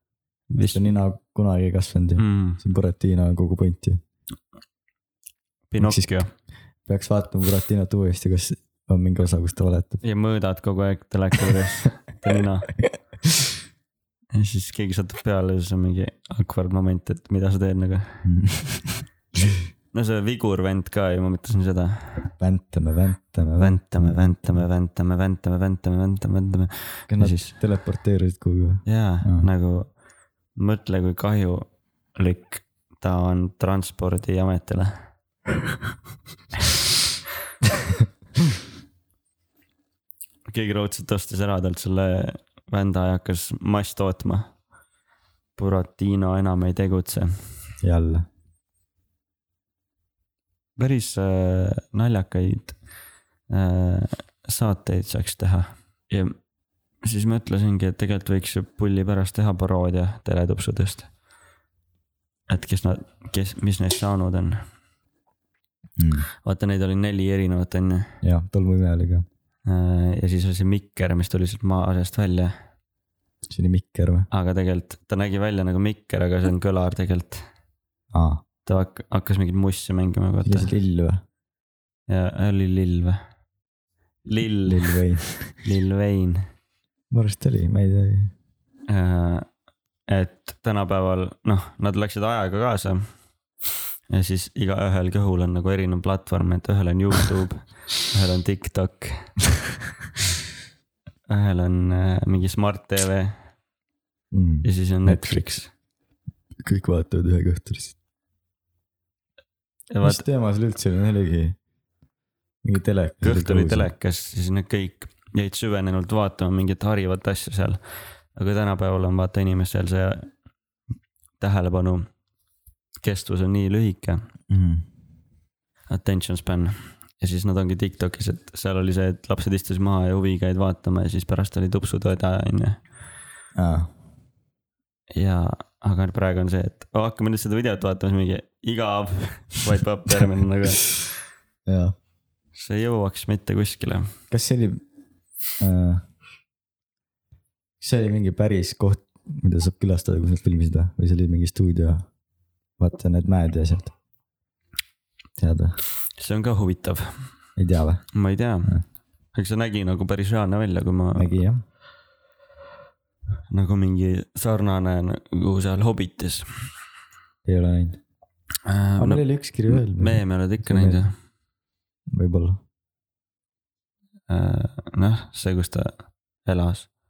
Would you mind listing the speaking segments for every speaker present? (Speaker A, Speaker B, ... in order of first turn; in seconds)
Speaker A: 0.5-1.0, 2.2-2.6, 5.7-6.3, 10.0-12.7, 14.3-18.2, 19.9-22.3, 23.6-27.6, 28.9-29.9, 30.6-35.1, 40.5-44.5, 45.5-47.3, 50.8-52.8, 53.5-56.4, 57.0-61.1, 62.5-64.6, 66.4-68.1, 69.7-72.5, 74.3-77.4, 78.7-80.7, 82.1-83.2, 84.2-85.0, 85.6-86.4, 88.9-89.5, 90.1-93.1, 94.1-99.4, 101.3-103.3, 104.6-105.7, 109.9-110.2, 113.2-117.8, 118.3-120.3, 121.4-122.1, 123.0-124.2, 125.9-132.8, 135.1-141.1, 142.5-144.1, 156.2-157.3, 158.1-158.7, 159.3-161.3, 163.5-166.7, 168.6-171.2, 174.3-176.9
Speaker B: 0.6-4.0, 5.8-6.1, 6.9-10.0, 18.2-19.0, 22.4-24.6, 27.1-29.4, 47.8-48.2, 66.0-66.3, 68.2-69.2, 73.5-74.3, 78.1-78.4, 80.4-81.2, 84.7-85.5, 87.1-88.3, 104.3-105.4, 106.6-107.9, 110.0-111.6, 112.6-113.9, 124.5-124.8, 133.5-133.9, 141.7-141.9, 144.3-144.8, 145.6-146.0, 147.8-152.1, 152.8-153.9, 155.4-155.8, 157.6-158.0, 161.1-161.6, 167.4-168.0, 169.0-171.0, 172.1-172.6